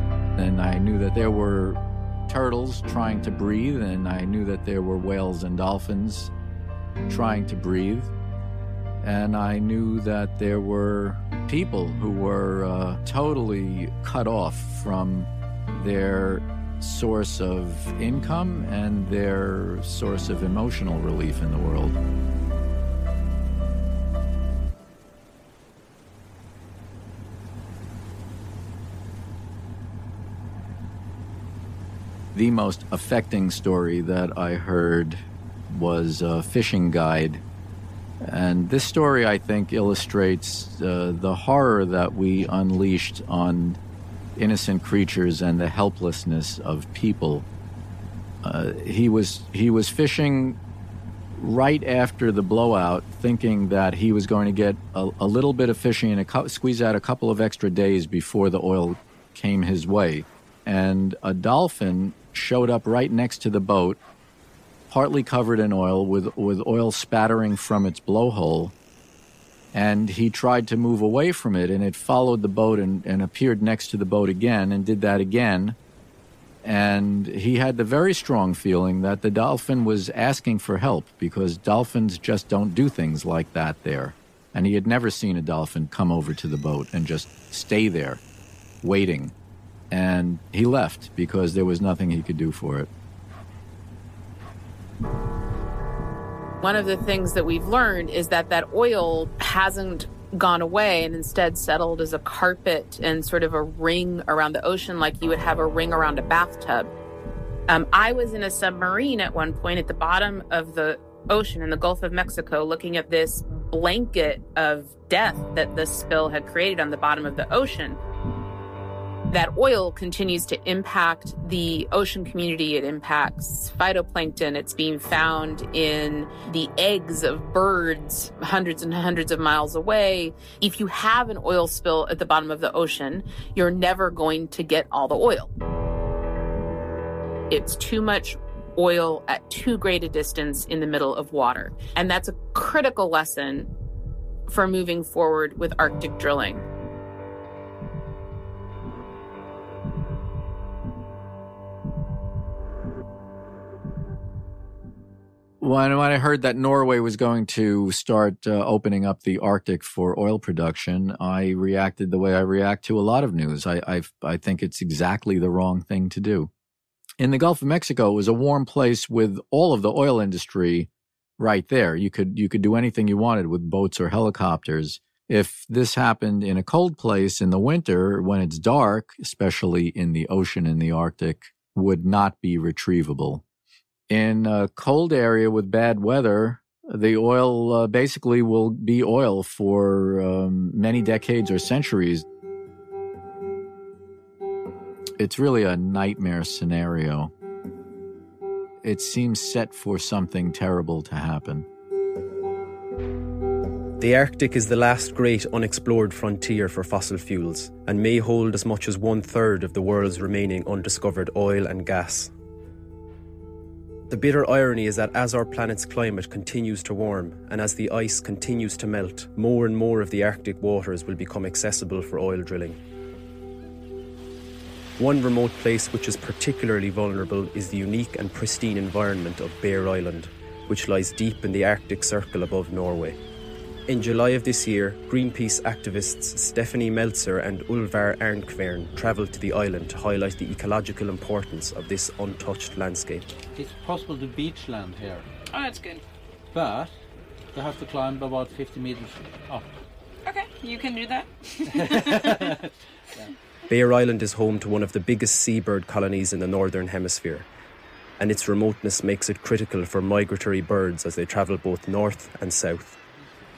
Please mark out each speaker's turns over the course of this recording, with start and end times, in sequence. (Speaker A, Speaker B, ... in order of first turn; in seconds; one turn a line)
Speaker A: 0.4-6.3
Speaker A: 7.1-8.1
Speaker A: 9.0-22.0
Speaker A: 32.3-37.4
Speaker A: 38.2-43.8
Speaker A: 44.4-47.5
Speaker A: 48.4-50.6
Speaker A: 51.4-64.0
Speaker A: 64.9-68.7
Speaker A: 69.7-75.8
Speaker A: 76.6-88.2
Speaker A: 88.8-89.3
Speaker A: 89.9-92.9
Speaker B: 96.6-106.9
Speaker B: 107.7-118.0
Speaker B: 119.3-135.5
Speaker B: 137.5-143.7
Speaker B: 144.5-146.7
Speaker A: 155.6-166.5
Speaker A: 167.2-170.9
Speaker A: 171.4-183.4
Speaker A: 184.1-192.2
Speaker A: 195.2-197.3
Speaker A: 198.8-201.7
Speaker C: 204.0-212.3
Speaker C: 214.1-222.8
Speaker C: 225.0-233.2
Speaker C: 233.9-243.3
Speaker D: 243.6-245.3
Speaker E: 245.5-246.0
Speaker D: 246.5-246.9
Speaker D: 247.5-249.8
Speaker E: 250.3-252.0
Speaker D: 251.7-253.3
Speaker C: 253.7-257.5
Speaker C: 258.2-262.9